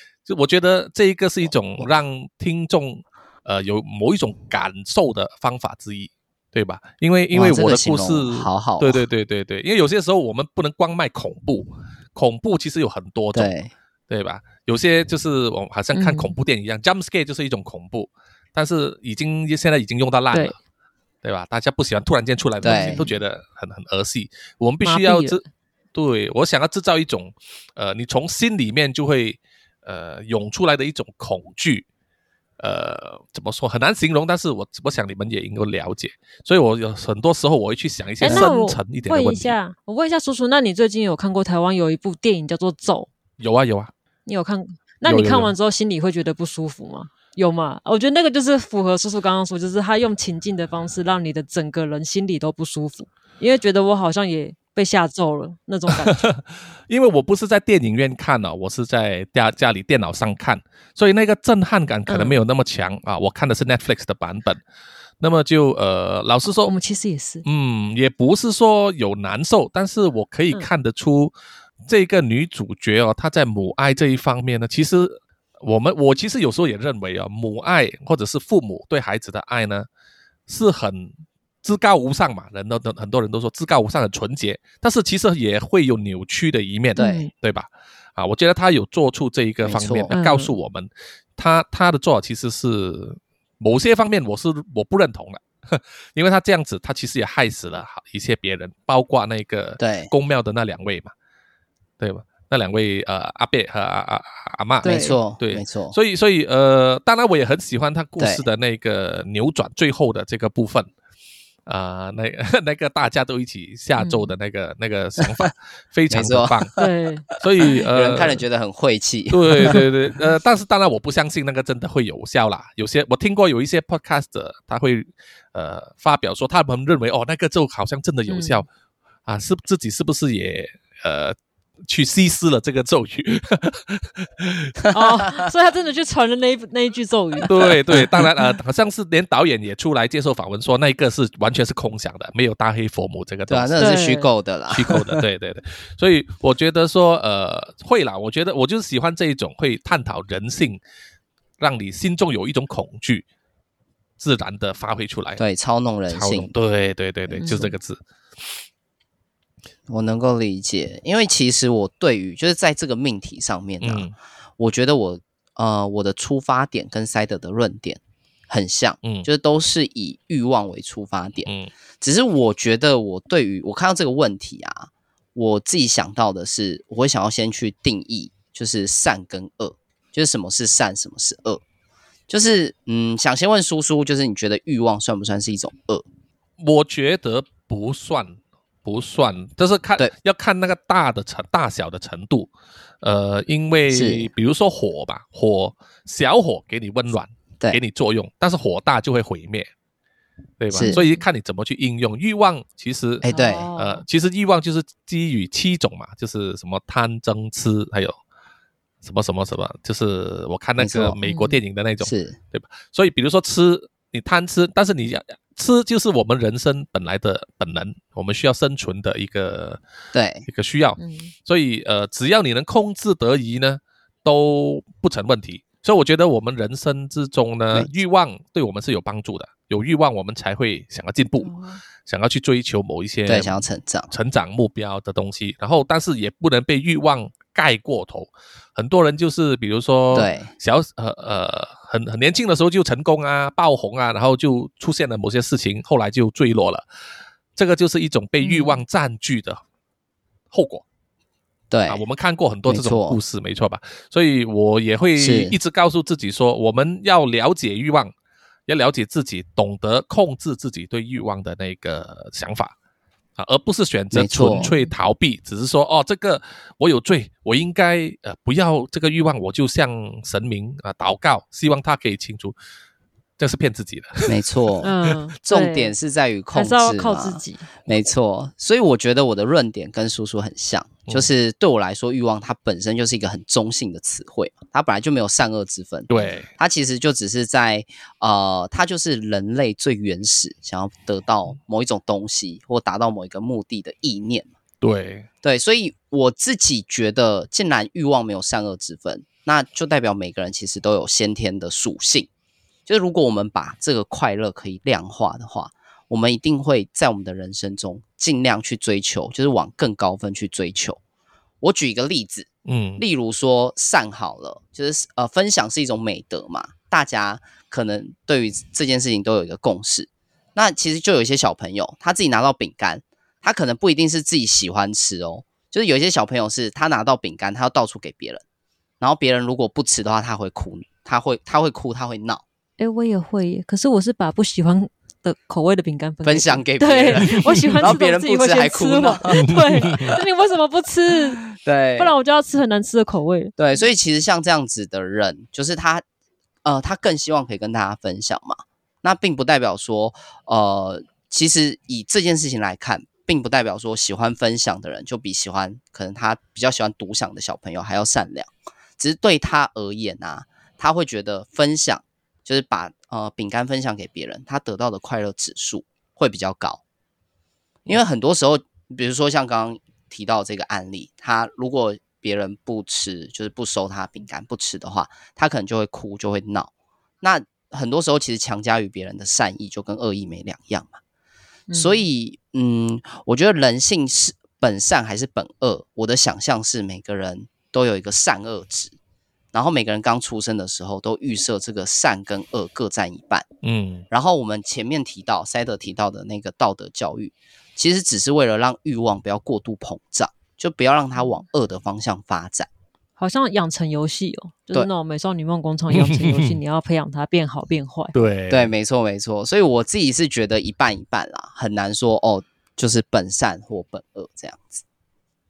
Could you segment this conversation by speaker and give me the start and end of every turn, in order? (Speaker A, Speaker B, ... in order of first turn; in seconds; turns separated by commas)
Speaker A: 0.3-13.5, Speaker B: 7.3-9.0, Speaker B: 13.3-13.7, Speaker A: 14.1-20.6, Speaker C: 15.9-16.3, Speaker A: 21.2-25.4, Speaker B: 22.6-23.0, Speaker C: 22.6-23.1, Speaker C: 24.8-25.4, Speaker A: 25.9-31.9, Speaker A: 32.6-39.5, Speaker C: 38.2-43.1, Speaker B: 38.2-38.5, Speaker A: 43.4-43.9, Speaker C: 44.3-56.3, Speaker A: 45.0-45.5, Speaker A: 56.0-64.6, Speaker C: 62.1-62.4, Speaker A: 65.2-66.7, Speaker C: 66.6-67.5, Speaker A: 67.5-71.3, Speaker A: 71.9-79.9, Speaker A: 80.5-101.1, Speaker C: 87.0-87.3, Speaker B: 87.0-87.3, Speaker B: 89.6-90.1, Speaker C: 90.1-90.5, Speaker B: 99.8-100.1, Speaker A: 102.0-110.9, Speaker C: 104.8-105.2, Speaker B: 104.8-106.0, Speaker B: 108.2-108.4, Speaker A: 111.7-116.7, Speaker C: 114.0-114.3, Speaker B: 116.1-116.8, Speaker C: 116.8-117.3, Speaker A: 117.4-118.4, Speaker B: 117.9-119.9, Speaker A: 119.3-128.7, Speaker C: 128.3-128.7, Speaker A: 129.3-134.8, Speaker C: 134.9-137.5, Speaker A: 137.4-144.0, Speaker B: 137.6-138.3, Speaker B: 143.5-145.2, Speaker C: 143.8-144.3, Speaker A: 144.7-150.8, Speaker A: 151.6-153.3, Speaker A: 154.2-155.4, Speaker B: 155.4-156.5, Speaker A: 156.1-158.5, Speaker C: 157.4-157.7, Speaker B: 159.9-164.1, Speaker A: 163.8-164.1, Speaker B: 164.6-171.5, Speaker A: 171.5-171.7, Speaker B: 172.0-181.6, Speaker B: 182.3-186.1, Speaker A: 186.6-192.5, Speaker A: 193.0-199.7, Speaker B: 193.9-194.3, Speaker A: 200.6-208.2, Speaker B: 200.7-201.0, Speaker C: 200.8-201.2, Speaker B: 203.2-203.7, Speaker C: 203.3-204.1, Speaker A: 209.0-219.8, Speaker B: 210.8-211.2, Speaker C: 211.3-211.6, Speaker B: 212.0-212.4, Speaker B: 220.1-220.5, Speaker A: 220.5-231.5, Speaker C: 221.0-221.3, Speaker C: 231.4-231.8, Speaker A: 232.1-246.8, Speaker B: 233.3-234.1, Speaker B: 240.1-240.5, Speaker A: 247.6-249.6, Speaker C: 248.4-248.8, Speaker A: 250.5-250.8, Speaker B: 251.7-252.0, Speaker A: 251.9-258.1, Speaker B: 252.7-253.2, Speaker B: 255.2-255.6, Speaker A: 258.7-262.7, Speaker A: 263.4-272.6, Speaker B: 264.1-264.7, Speaker C: 264.5-264.9, Speaker A: 273.4-274.5, Speaker B: 274.3-274.9, Speaker C: 274.8-275.9, Speaker B: 275.4-294.5, Speaker C: 276.5-277.7, Speaker A: 286.1-286.5, Speaker A: 294.8-295.3, Speaker B: 295.4-302.3, Speaker B: 302.9-311.0, Speaker B: 311.6-328.4, Speaker A: 312.7-313.0, Speaker B: 329.0-332.4, Speaker C: 332.8-341.4, Speaker B: 336.2-340.2, Speaker A: 339.5-340.1, Speaker B: 341.5-342.1, Speaker C: 342.0-343.5, Speaker B: 343.6-346.0, Speaker B: 346.6-366.8, Speaker B: 367.9-381.0, Speaker C: 381.7-382.0, Speaker B: 381.7-388.9, Speaker B: 389.5-393.5, Speaker A: 393.6-394.1, Speaker B: 394.1-402.7, Speaker C: 403.2-408.1, Speaker A: 405.9-406.6, Speaker A: 408.1-408.7, Speaker B: 408.5-414.8